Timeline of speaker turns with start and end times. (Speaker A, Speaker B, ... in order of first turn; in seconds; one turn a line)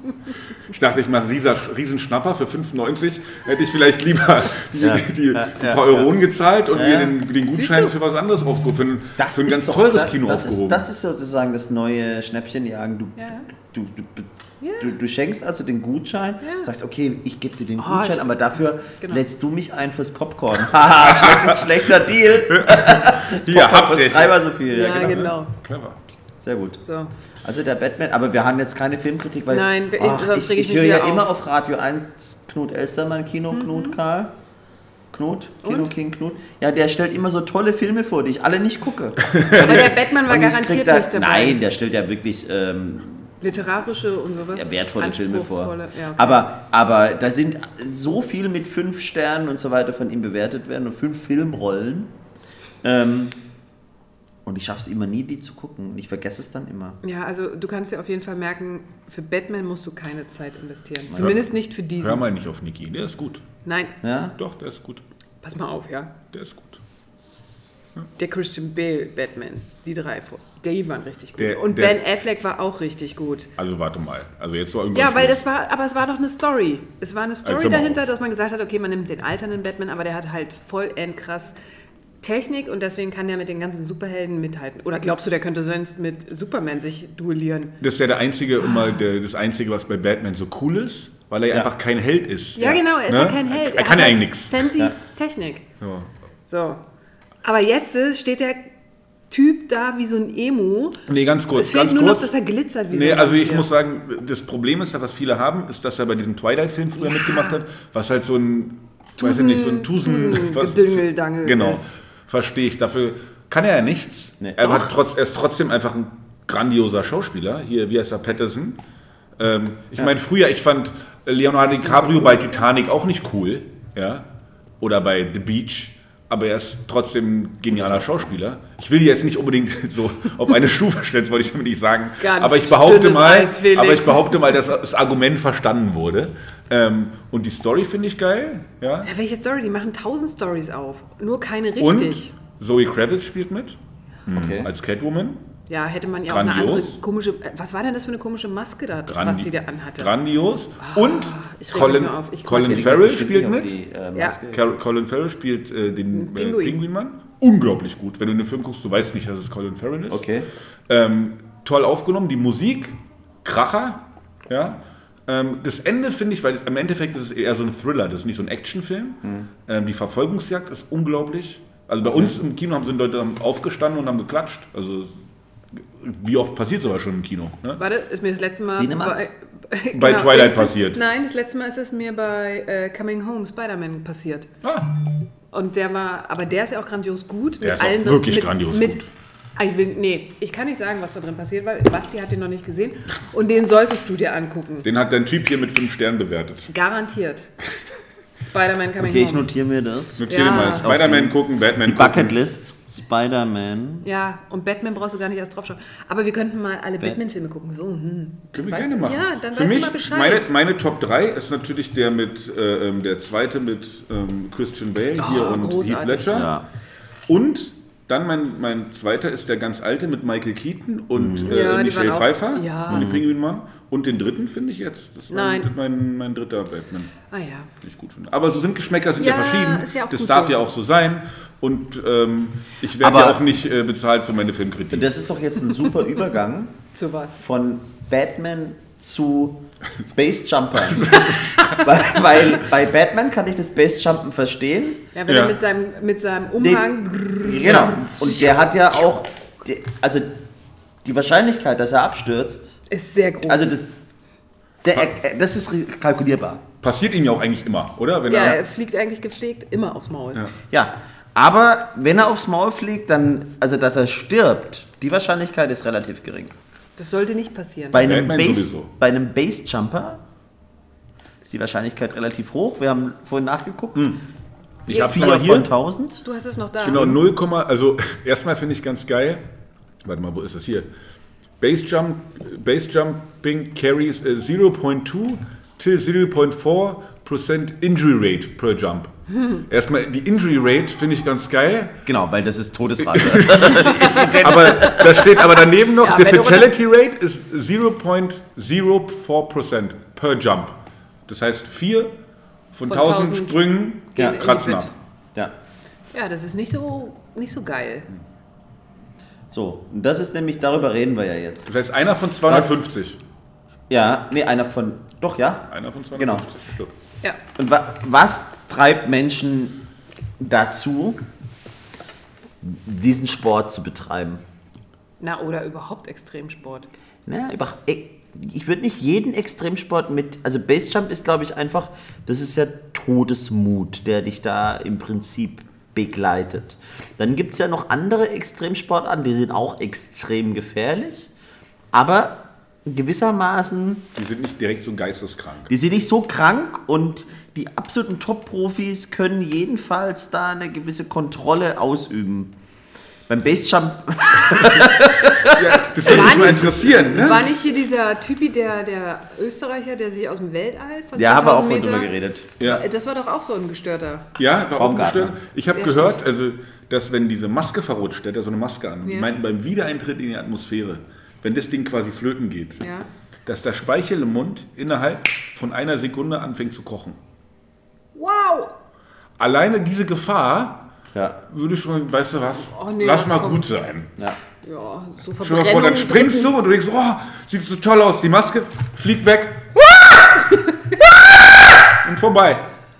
Speaker A: 0.5-10.9
Speaker B: 4.8-6.1
Speaker B: 6.7-7.2
Speaker C: 7.5-7.9
Speaker B: 9.2-25.3
Speaker C: 13.2-13.5
Speaker C: 14.6-14.9
Speaker C: 16.4-16.7
Speaker C: 17.8-18.4
Speaker C: 18.9-19.2
Speaker A: 21.1-21.6
Speaker A: 22.5-26.0
Speaker C: 24.7-25.5
Speaker B: 26.4-26.8
Speaker C: 26.8-27.1
Speaker B: 27.4-34.3
Speaker C: 29.5-31.3
Speaker C: 33.5-33.9
Speaker B: 35.1-43.3
Speaker C: 35.6-35.9
Speaker A: 39.2-39.8
Speaker C: 39.5-41.6
Speaker C: 43.4-46.4
Speaker B: 44.5-52.1
Speaker B: 52.8-53.4
Speaker B: 54.4-57.0
Speaker C: 57.0-62.2
Speaker A: 61.2-61.4
Speaker A: 62.0-63.4
Speaker C: 63.6-64.0
Speaker B: 64.0-64.3
Speaker A: 64.4-65.0
Speaker C: 65.4-66.1
Speaker A: 66.3-66.8
Speaker C: 68.2-73.5
Speaker A: 71.4-72.0
Speaker A: 73.6-75.4
Speaker C: 74.9-81.5
Speaker A: 77.4-78.0
Speaker C: 82.2-87.7
Speaker A: 87.8-94.8
Speaker C: 88.6-89.0
Speaker C: 92.5-95.7
Speaker A: 95.8-96.1
Speaker C: 96.5-96.8
Speaker C: 97.4-98.7
Speaker C: 99.3-101.0
Speaker A: 101.1-102.3
Speaker C: 101.5-103.7
Speaker A: 102.9-118.8
Speaker C: 107.0-107.5
Speaker C: 109.2-112.0
Speaker C: 114.6-114.9
Speaker A: 119.4-124.2
Speaker C: 121.8-122.4
Speaker A: 124.8-139.1
Speaker B: 127.7-128.3
Speaker C: 132.2-134.5
Speaker C: 139.0-142.3
Speaker A: 141.8-145.4
Speaker B: 144.3-144.7
Speaker C: 145.7-150.1
Speaker A: 146.3-147.0
Speaker A: 149.1-153.7
Speaker C: 150.8-153.0
Speaker B: 152.6-154.6
Speaker A: 154.5-160.3
Speaker C: 156.1-156.8
Speaker B: 160.1-160.5
Speaker A: 160.9-175.2
Speaker B: 169.2-169.5
Speaker A: 175.7-177.8
Speaker C: 177.8-184.5
Speaker B: 178.7-179.3
Speaker A: 179.9-181.0
Speaker C: 185.5-189.0
Speaker A: 187.6-189.1
Speaker C: 189.6-194.9
Speaker A: 194.8-196.7
Speaker C: 196.7-197.5
Speaker C: 198.4-199.5
Speaker B: 199.0-204.1
Speaker A: 200.2-202.4
Speaker C: 200.3-200.9
Speaker C: 204.0-210.5
Speaker A: 208.5-216.5
Speaker C: 215.2-216.4
Speaker B: 216.3-216.6
Speaker A: 217.3-227.1
Speaker B: 221.1-221.5
Speaker C: 221.4-223.1
Speaker B: 222.9-223.2
Speaker C: 225.3-225.7
Speaker C: 227.3-227.7
Speaker A: 227.8-235.1
Speaker C: 229.2-230.6
Speaker B: 233.0-233.4
Speaker B: 234.9-236.7
Speaker C: 236.9-237.4
Speaker B: 237.4-239.6
Speaker B: 240.1-245.1
Speaker A: 240.9-241.9
Speaker C: 245.1-248.2
Speaker A: 245.3-245.6
Speaker B: 246.6-250.3
Speaker B: 251.0-252.8
Speaker C: 252.9-253.8
Speaker B: 253.5-253.9
Speaker B: 254.8-256.6
Speaker A: 256.8-258.6
Speaker C: 258.3-260.5
Speaker B: 260.7-266.6
Speaker C: 267.0-268.1
Speaker B: 267.9-270.2
Speaker A: 267.9-268.9
Speaker B: 271.4-274.1
Speaker A: 274.9-275.7
Speaker C: 274.9-275.4
Speaker B: 274.9-276.2
Speaker C: 276.2-277.2
Speaker A: 276.8-279.4
Speaker A: 280.0-280.9
Speaker A: 281.6-292.0
Speaker C: 289.3-289.6
Speaker B: 292.1-295.3
Speaker A: 293.0-302.1
Speaker C: 293.7-295.5
Speaker C: 296.0-296.7
Speaker A: 302.7-304.9
Speaker C: 302.9-304.9
Speaker C: 306.1-308.1
Speaker B: 309.5-311.7
Speaker A: 311.7-313.2
Speaker B: 312.4-312.8
Speaker B: 313.9-316.4
Speaker A: 315.7-316.9
Speaker B: 317.6-319.8
Speaker B: 320.4-321.2
Speaker B: 322.6-324.4
Speaker C: 325.2-326.9
Speaker B: 327.2-341.3
Speaker B: 341.9-344.0
Speaker A: 344.1-345.7
Speaker B: 345.7-352.5
Speaker B: 353.3-357.4
Speaker A: 355.4-357.5
Speaker C: 356.0-364.3
Speaker B: 361.1-362.5
Speaker A: 364.4-372.8
Speaker B: 364.8-365.4
Speaker C: 365.7-366.2
Speaker C: 369.0-369.3
Speaker C: 372.8-373.1
Speaker A: 373.4-377.2
Speaker C: 378.1-378.7
Speaker A: 379.4-380.9
Speaker B: 381.1-381.4
Speaker A: 381.5-384.1
Speaker C: 382.7-383.7
Speaker C: 384.6-386.5
Speaker A: 385.4-389.9
Speaker C: 390.3-390.9
Speaker A: 391.8-392.6